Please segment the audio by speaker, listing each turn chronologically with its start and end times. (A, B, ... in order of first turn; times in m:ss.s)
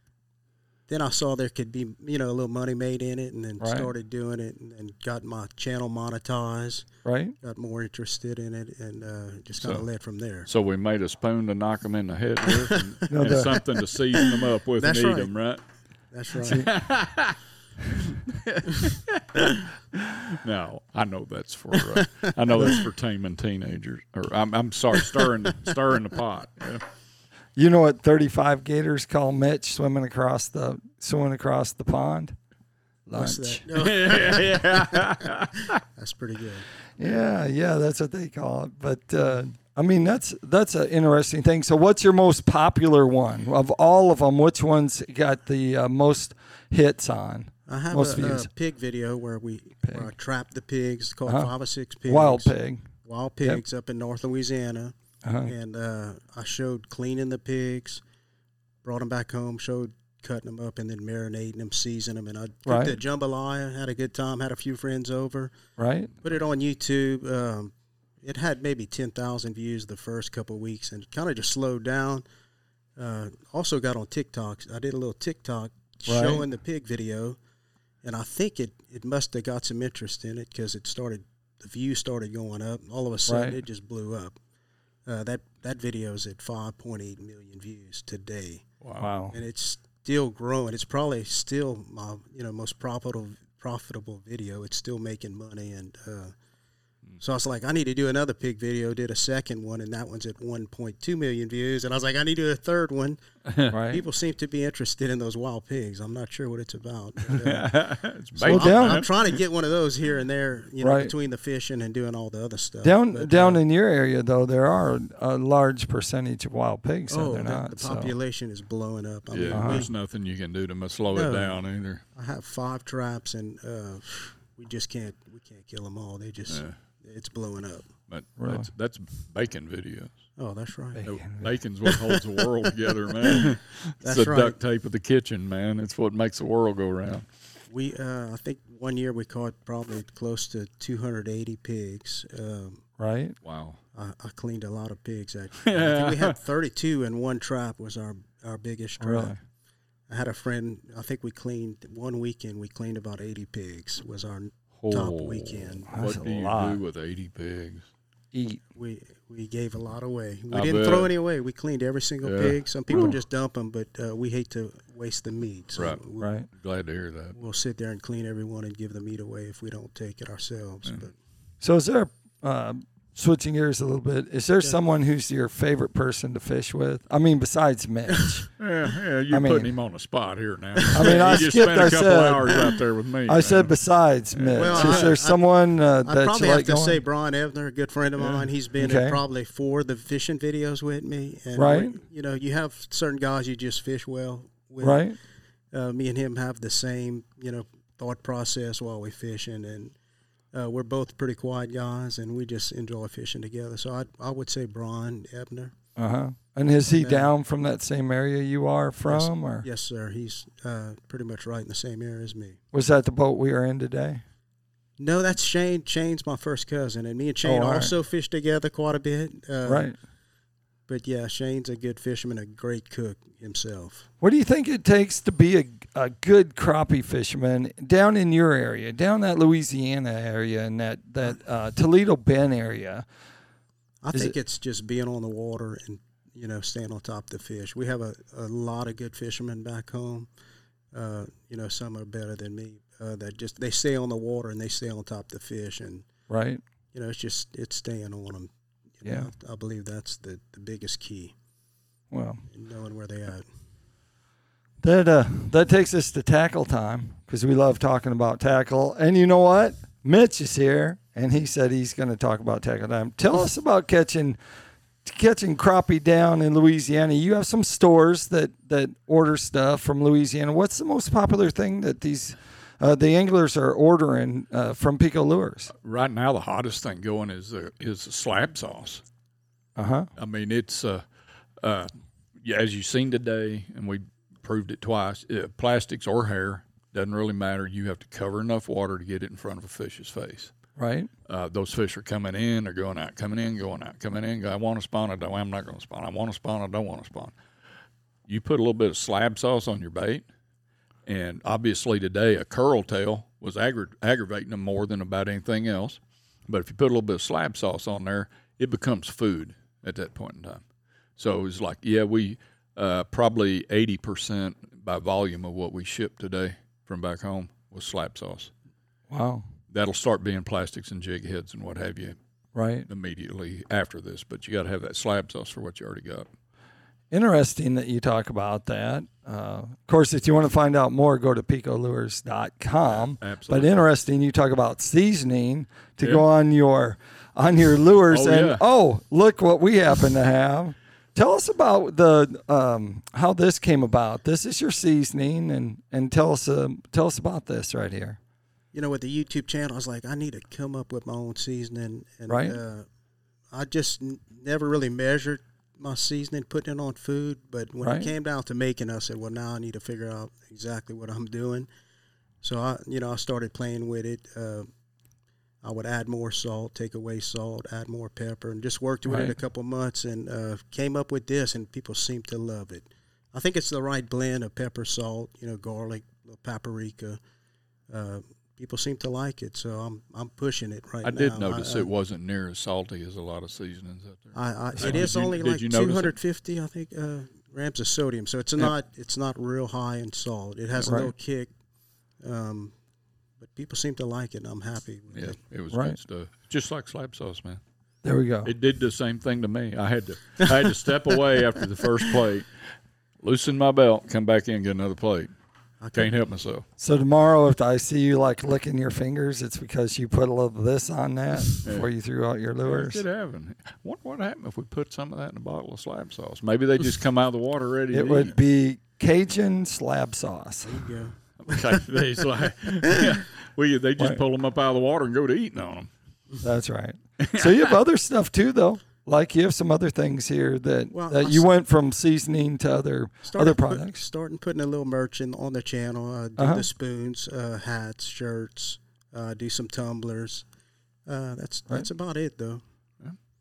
0:00.9-0:06.9 A
0:03.6-0:03.9 B
0:07.0-0:07.4 B
0:07.4-0:10.5 A
0:09.6-0:09.9 C
0:10.4-0:15.6 C
0:12.5-0:12.8 A
0:13.1-0:13.5 B
0:14.1-0:15.3 A
0:16.1-0:16.7 A
0:16.5-0:17.4 C
0:18.0-0:26.8 C
0:22.0-0:22.8 A
0:27.6-0:32.3 B
0:33.1-0:33.6 B
0:33.1-0:35.2 A
0:33.7-0:35.8 C
0:35.9-0:36.6 A
0:37.0-0:48.5 B
0:47.7-0:52.5 A
0:49.8-0:50.1 B
0:51.2-0:51.5 B
0:52.0-0:52.9 B
0:53.0-0:54.9 A
0:55.2-0:55.5 B
0:55.4-0:58.0 A
0:58.8-1:05.5 A
1:02.6-1:03.0 B
1:05.8-1:06.1 B
1:06.2-1:12.2 A
1:13.0-1:17.4 A
1:16.1-1:16.4 B
1:18.0-1:24.4 A
1:23.3-1:23.6 B
1:25.0-1:28.6 A
1:29.0-1:29.4 B
1:29.3-1:36.3 A
1:37.2-1:43.2 A
1:43.5-1:43.8 C
1:43.7-1:44.0 B
1:43.9-1:47.8 A
1:47.3-1:49.4 C
1:48.4-1:53.6 A
1:48.4-1:49.0 B
1:50.8-1:51.1 B
1:52.8-1:58.1 B
1:57.1-1:59.9 A
1:59.3-2:02.0 C
1:59.5-1:59.9 B
2:01.1-2:01.6 A
2:02.1-2:07.9 A
2:08.1-2:10.1 C
2:08.4-2:08.7 B
2:10.4-2:11.0 A
2:11.0-2:11.5 B
2:11.0-2:17.2 C
2:11.8-2:12.2 A
2:14.0-2:14.6 A
2:17.7-2:22.8 A
2:23.0-2:23.4 B
2:23.4-2:23.8 C
2:23.9-2:29.3 A
2:25.6-2:26.3 C
2:29.0-2:29.4 B
2:30.1-2:35.9 A
2:34.8-2:37.8 C
2:35.9-2:36.8 B
2:38.3-2:38.6 B
2:38.7-2:46.3 A
2:40.5-2:41.1 C
2:42.2-2:43.2 C
2:46.2-2:46.5 B
2:46.5-2:47.3 C
2:47.3-2:51.1 A
2:51.6-2:58.4 B
2:58.6-3:03.7 C
2:59.3-2:59.7 B
3:00.9-3:01.4 A
3:00.9-3:02.6 B
3:03.3-3:07.0 B
3:04.3-3:05.1 C
3:04.6-3:05.4 A
3:06.0-3:15.0 A
3:08.8-3:09.2 B
3:11.6-3:12.0 B
3:14.8-3:15.2 B
3:15.7-3:19.9 A
3:20.5-3:25.7 A
3:26.0-3:29.6 B
3:27.0-3:27.3 A
3:29.1-3:32.6 A
3:32.7-3:34.2 B
3:35.0-3:39.9 A
3:37.4-3:37.9 B
3:39.6-3:39.9 B
3:40.9-3:44.0 A
3:44.2-3:53.0 B
3:54.0-4:00.3 A
4:00.9-4:06.1 A
4:06.3-4:06.6 B
4:06.9-4:11.3 A
4:09.0-4:09.3 B
4:12.1-4:12.4 B
4:12.5-4:13.5 A
4:14.8-4:24.4 B
4:25.0-4:35.7 B
4:35.7-4:39.0 C
4:39.8-4:40.1 B
4:40.2-4:41.0 C
4:41.6-4:41.9 C
4:42.4-4:50.5 C
4:50.8-4:51.1 B
4:51.3-4:57.3 C
4:58.3-5:00.2 C
5:01.0-5:10.6 C
5:11.2-5:18.5 C
5:19.1-5:19.4 B
5:19.7-5:22.2 C
5:22.5-5:22.9 B
5:22.9-5:26.3 C
5:27.1-5:48.2 B
5:32.8-5:33.9 C
5:36.0-5:36.2 C
5:38.1-5:38.6 C
5:48.7-5:52.9 A
5:52.3-5:52.6 B
5:53.5-6:01.7 A
5:57.8-5:58.1 B
6:02.4-6:04.7 A
6:05.6-6:17.2 A
6:09.1-6:09.3 B
6:17.9-6:21.9 A
6:21.0-6:26.2 C
6:24.3-6:31.5 A
6:24.7-6:25.0 B
6:30.8-6:31.1 B
6:32.2-6:32.7 A
6:33.4-6:35.4 A
6:35.1-6:37.6 C
6:35.7-6:36.0 B
6:38.0-6:38.5 B
6:38.4-6:42.5 C
6:43.2-6:45.3 C
6:45.8-6:46.1 A
6:45.9-6:46.6 C
6:46.8-6:53.0 B
6:51.6-6:51.9 C
6:52.6-6:58.4 C
6:57.9-7:00.8 B
7:00.6-7:01.7 A
7:01.4-7:05.9 C
7:06.4-7:14.0 B
7:07.2-7:07.7 C
7:10.9-7:11.5 A
7:13.2-7:20.4 A
7:16.4-7:16.6 B
7:21.1-7:22.6 A